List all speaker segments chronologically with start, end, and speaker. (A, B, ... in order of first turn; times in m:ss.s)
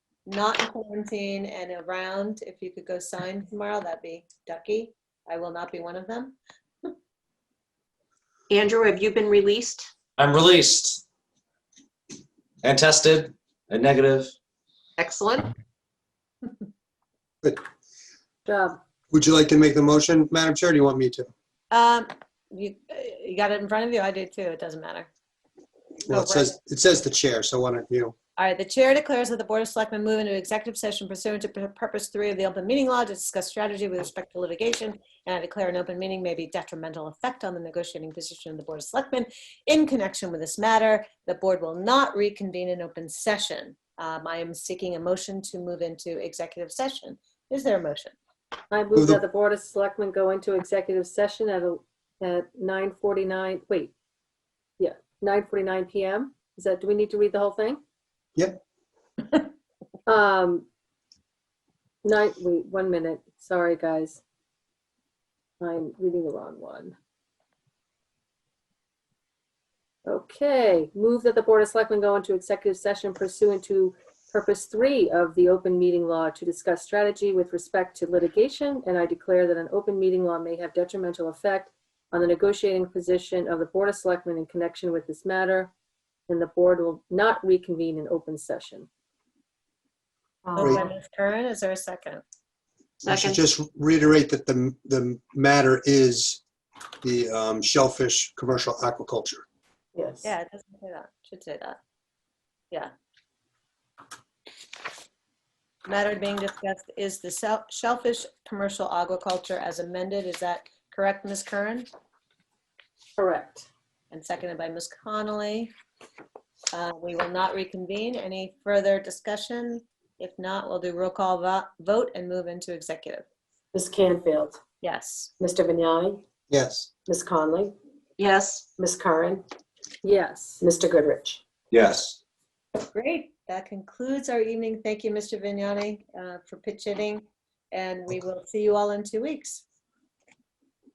0:00.2-0:06.9 A
0:08.5-0:09.9 B
0:10.2-0:11.0 C
0:12.6-0:14.3 C
0:15.0-0:15.5 B
0:18.4-0:18.8 D
0:19.1-0:21.3 E
0:21.7-0:25.1 A
0:26.0-0:28.1 E
0:26.1-0:26.5 A
0:28.4-0:48.1 A
0:48.7-0:53.9 D
0:49.0-0:49.2 E
0:54.8-0:57.8 D
1:00.1-1:00.6 D
1:02.0-1:04.2 D
1:05.6-1:06.9 D
1:10.0-1:25.7 D
1:26.3-1:28.9 D
1:30.4-1:30.8 F
1:30.6-1:32.2 A
1:33.0-1:36.4 E
1:33.0-1:33.4 B
1:37.0-1:39.4 E
1:39.9-1:40.3 F
1:40.2-1:41.8 A
1:45.8-1:51.9 A
1:53.2-1:53.7 D
1:54.1-1:55.7 A
1:56.7-2:03.2 A
2:03.7-2:04.6 F
2:04.8-2:05.3 A
2:05.4-2:06.2 F
2:06.5-2:06.9 E
2:07.0-2:07.7 F
2:08.2-2:08.6 B
2:08.8-2:09.4 F
2:10.0-2:10.6 D
2:10.6-2:11.4 F
2:11.7-2:12.2 C
2:12.9-2:19.6 A